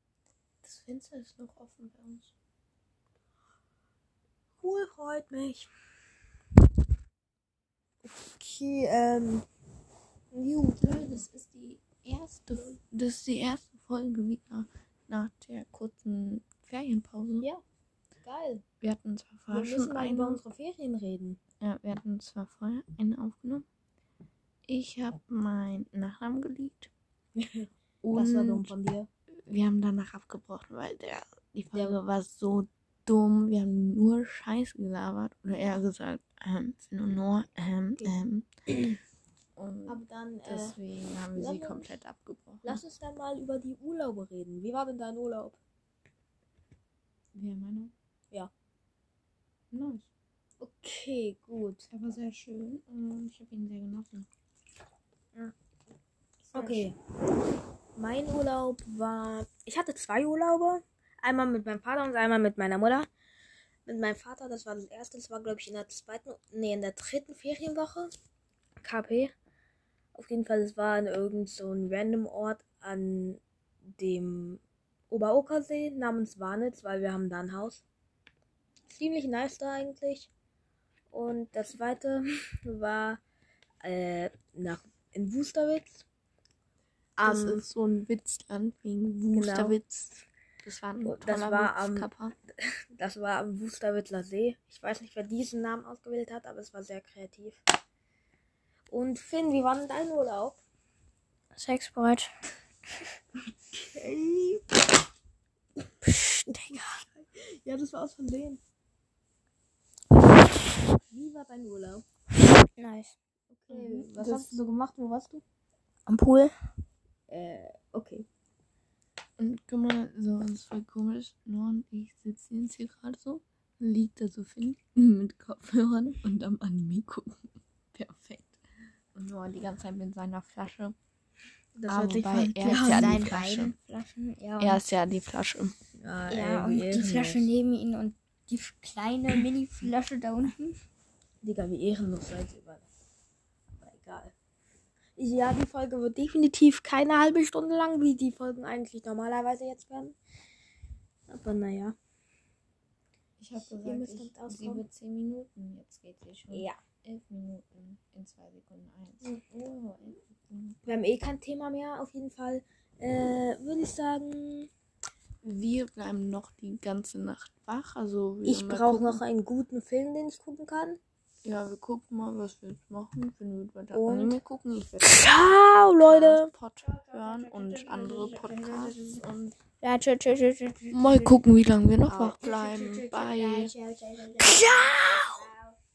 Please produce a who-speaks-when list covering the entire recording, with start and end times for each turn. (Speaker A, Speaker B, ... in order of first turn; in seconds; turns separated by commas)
Speaker A: 0.6-2.3, Speaker B: 4.6-5.7, Speaker B: 8.0-9.4, Speaker B: 10.3-11.2, Speaker A: 10.8-17.5, Speaker B: 18.2-18.6, Speaker A: 18.8-20.4, Speaker B: 19.5-21.4, Speaker A: 21.6-23.6, Speaker A: 24.7-26.9, Speaker B: 27.4-29.1, Speaker A: 28.0-28.7, Speaker A: 29.4-39.0, Speaker B: 31.7-32.0, Speaker A: 39.5-42.8, Speaker B: 39.9-40.8, Speaker B: 41.3-41.9, Speaker B: 42.6-45.6, Speaker A: 47.3-47.9, Speaker A: 49.7-50.0, Speaker B: 50.6-51.9, Speaker A: 51.9-54.3, Speaker B: 56.5-57.0, Speaker A: 56.6-56.8, Speaker B: 58.0-63.1, Speaker B: 63.9-68.1, Speaker B: 68.8-69.3, Speaker B: 70.1-73.4, Speaker B: 73.9-77.8, Speaker B: 78.9-80.3, Speaker B: 81.1-83.2, Speaker B: 83.8-86.0, Speaker B: 87.2-87.6, Speaker A: 87.2-92.3, Speaker B: 89.3-89.8, Speaker B: 91.0-92.1, Speaker B: 92.9-97.6, Speaker B: 98.9-100.6, Speaker C: 101.5-102.3, Speaker B: 103.7-104.7, Speaker B: 106.6-108.6, Speaker B: 111.0-112.0, Speaker C: 112.8-113.1, Speaker B: 113.6-115.4, Speaker A: 113.7-114.6, Speaker C: 116.0-116.5, Speaker B: 117.3-118.2, Speaker A: 119.4-128.6, Speaker A: 129.1-130.9, Speaker B: 131.8-133.3, Speaker A: 131.9-133.7, Speaker C: 132.6-134.8, Speaker A: 134.6-135.7, Speaker B: 136.0-137.5, Speaker C: 136.3-140.8, Speaker B: 141.4-142.8, Speaker B: 143.8-144.3, Speaker B: 145.2-150.2, Speaker B: 151.3-151.9, Speaker A: 153.4-160.8, Speaker B: 153.6-154.8, Speaker B: 156.5-156.8, Speaker B: 160.8-164.7, Speaker A: 165.4-169.2, Speaker B: 168.4-171.0, Speaker A: 171.4-175.2, Speaker B: 173.9-174.4, Speaker B: 175.0-176.5, Speaker A: 176.0-179.6, Speaker C: 176.8-179.2, Speaker C: 179.8-181.4, Speaker A: 180.9-183.7, Speaker C: 182.1-185.8, Speaker B: 184.4-185.4